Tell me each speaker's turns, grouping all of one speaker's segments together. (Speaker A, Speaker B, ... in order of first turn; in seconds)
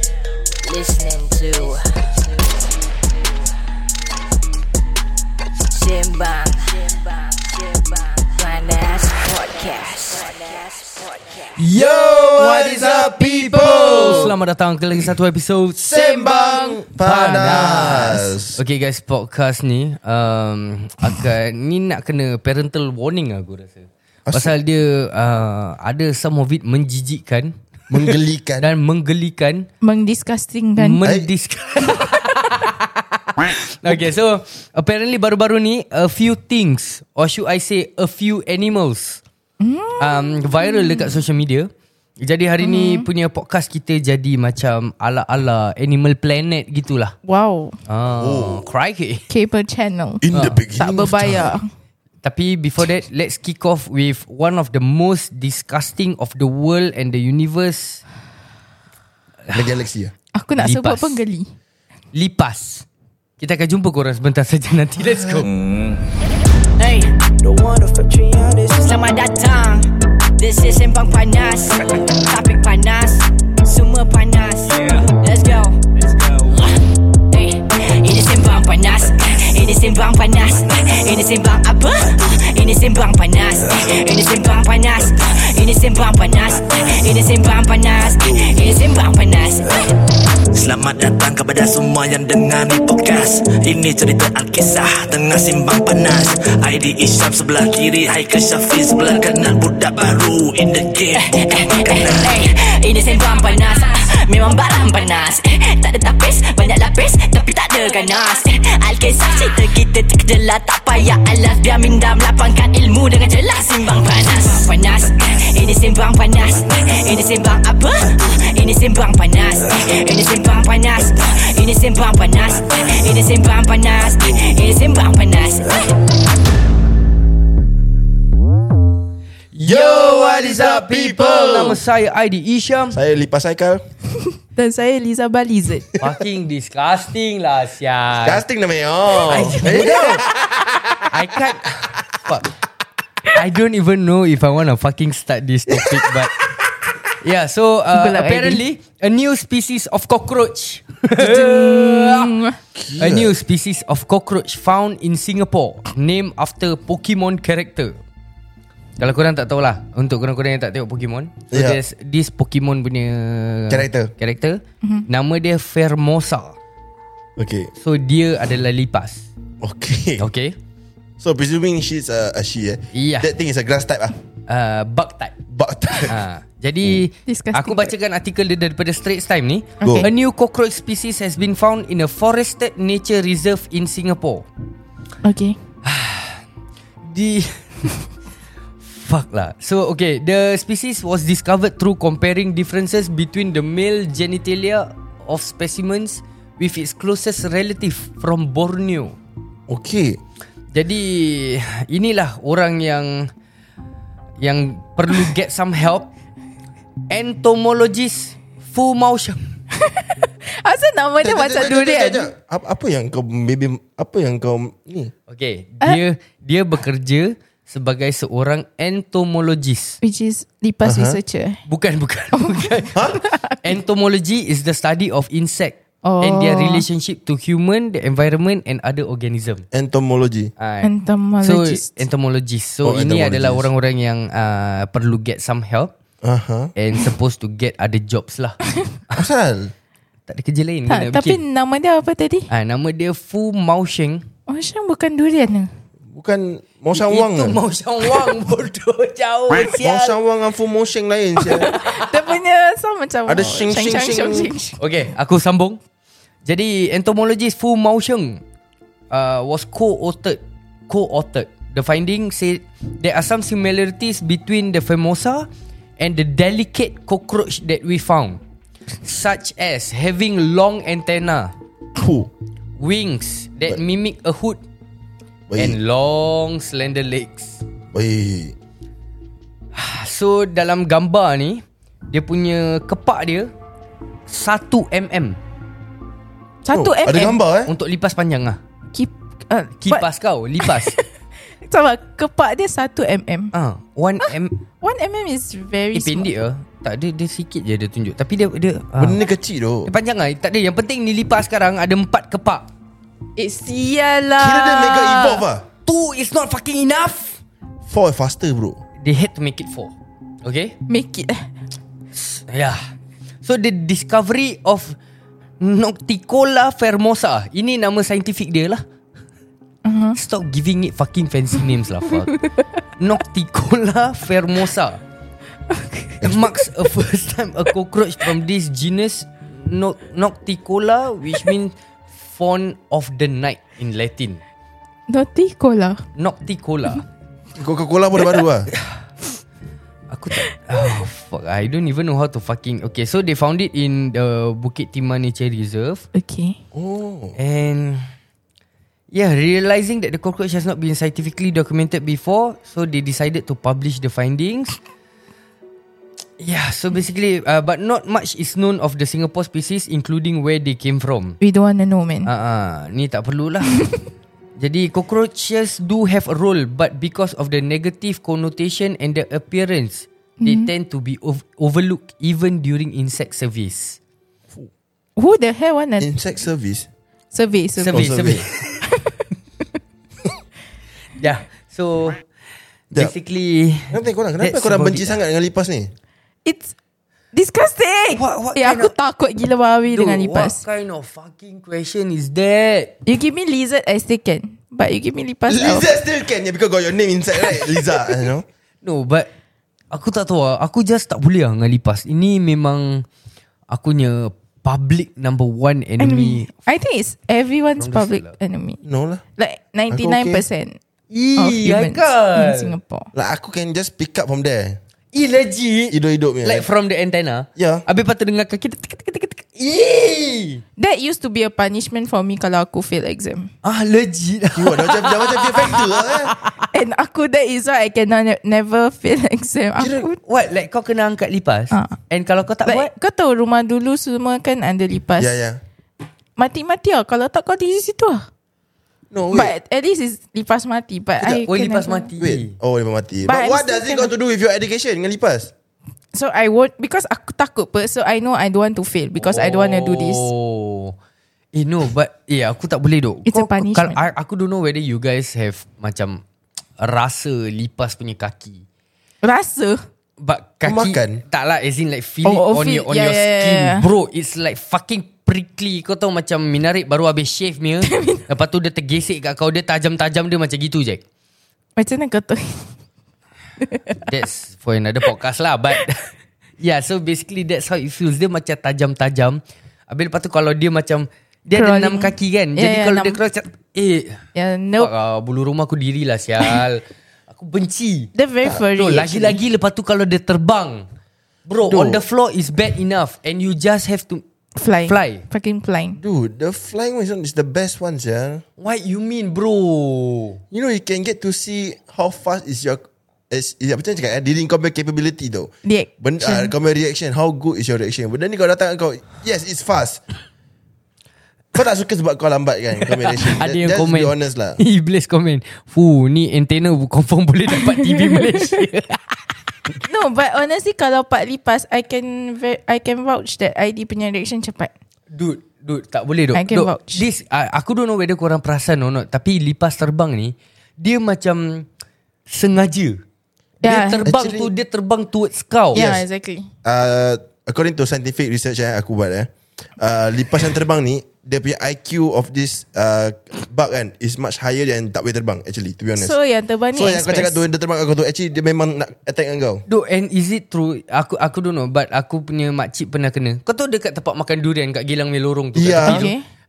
Speaker A: 0.6-3.4, 5.7-11.6, 66.8-67.2, 68.7-75.8, 77.3-89.9, 101.2-125.9
Speaker B: 11.6-14.4, 15.8-18.6, 24.3-24.6, 27.9-28.7, 31.0-31.3, 48.1-48.7, 50.2-51.5, 59.5-60.1, 129.6-131.8, 132.9-133.8, 138.2-140.9, 145.7-146.5, 152.8-153.4, 161.5-161.8, 163.7-164.1, 167.4-167.7, 169.6-170.3, 171.2-174.2, 175.5-176.2, 179.8-180.1, 199.7-200.2, 211.2-215.1, 220.8-221.2, 229.7-230.5, 232.8-233.7, 236.2-236.7, 239.1-239.7, 246.1-247.6, 249.8-251.7, 253.3-254.5, 272.0-272.3, 275.5-275.8, 277.9-278.6, 286.7-287.7, 299.0-299.9, 304.4-305.7, 307.9-308.8, 326.2-326.5, 337.6-338.7, 346.7-347.4, 376.0-376.9, 377.9-378.4, 383.9-385.9, 395.5-398.5, 408.8-409.2, 409.9-410.4, 413.1-414.8, 415.9-416.7, 417.6-417.8, 424.6-426.3, 429.8-430.1, 435.2-435.6, 439.1-439.5, 442.2-445.5, 460.6-461.2, 491.7-492.0, 496.0-498.4, 500.5-510.0, 511.5-514.6, 534.1-534.5, 535.7-536.0, 536.6-546.1, 546.7-549.6, 555.5-556.1
Speaker C: 12.4-15.8, 17.0-29.7, 30.8-39.2, 40.0-41.7, 42.2-47.1, 47.9-49.3, 52.2-58.0, 59.5-59.8, 60.6-61.2, 62.1-62.9, 63.4-65.5, 129.5-133.0, 136.0-138.4, 139.2-140.2, 141.1-142.5, 143.3-146.3, 147.2-152.4, 153.0-158.0, 159.0-166.6, 167.8-169.3, 170.2-170.6, 172.9-173.3, 174.5-175.4, 176.1-184.5, 185.8-186.4, 187.0-187.9, 188.8-199.2, 200.7-203.3, 204.4-206.1, 207.1-209.4, 215.3-220.0, 221.7-229.7, 230.6-230.9, 231.4-235.9, 236.8-238.6, 240.3-241.4, 242.5-244.2, 246.9-250.2, 254.8-255.8, 256.4-258.4, 259.1-265.5, 266.0-268.4, 269.0-271.5, 272.8-274.6, 275.6-277.6, 279.7-283.5, 284.3-285.4, 287.7-288.6, 289.8-291.0, 293.5-294.5, 295.9-299.2, 299.9-302.7, 305.9-307.4, 309.0-309.9, 310.4-310.8, 312.1-312.9, 313.4-315.0, 315.6-318.8, 320.2-322.4, 323.0-325.0, 326.2-334.4, 336.2-337.1, 338.7-339.0, 340.1-346.1, 347.4-348.1, 349.1-354.8, 356.4-361.4, 362.3-363.9, 364.6-374.0, 377.8-378.9, 381.2-382.2, 382.9-385.1, 388.1-388.9, 389.9-392.9, 398.8-399.3, 399.9-403.1, 403.7-406.5, 407.8-408.3, 411.1-412.8, 415.1-420.6, 423.6-426.5, 430.2-432.9, 441.4-442.5, 449.2-450.9, 451.5-456.2, 456.8-458.6, 460.2-471.0, 474.0-476.1, 476.6-484.2, 484.8-490.9, 491.5-494.2, 494.9-495.2, 498.6-500.4, 512.9-519.2, 525.1-531.7, 532.3-533.0, 533.6-536.0, 549.7-556.1
Speaker D: 16.1-16.6, 17.1-17.9, 29.8-31.0, 39.6-41.2, 42.6-43.1, 47.3-47.8, 49.3-50.2, 50.8-51.7, 60.4-61.5, 134.5-135.9, 139.6-140.2, 147.9-148.6, 151.2-152.6, 177.3-177.9, 179.8-180.1, 185.2-185.6, 209.8-212.3, 220.0-221.6, 222.4-222.7, 223.2-223.6, 226.1-226.8, 230.8-232.0, 240.9-242.5, 244.5-245.7, 251.4-254.8, 286.6-287.4, 288.9-290.1, 290.6-293.5, 294.8-296.3, 303.4-305.4, 310.9-311.5, 319.9-320.2, 325.7-326.2, 335.1-336.0, 346.1-346.6, 361.4-362.3, 370.4-370.7, 375.2-376.1, 377.3-378.0, 386.4-386.8, 387.3-390.6, 393.1-395.9, 406.0-408.8, 409.4-410.8, 411.4-413.1, 420.8-423.5, 426.7-430.2, 431.7-432.0, 432.7-435.3, 436.4-438.3, 439.3-442.1, 443.3-444.1, 446.1-450.3, 453.3-454.0, 459.2-459.8, 462.2-463.9, 467.9-468.2, 471.8-472.7, 473.6-474.0, 481.6-483.2, 484.4-484.9, 488.1-489.4, 494.6-496.0, 505.6-506.5, 519.8-524.7, 526.3-527.0, 533.6-534.1, 535.7-536.5, 546.0-547.4, 555.8-556.2
Speaker E: 65.5-66.0, 90.5-102.5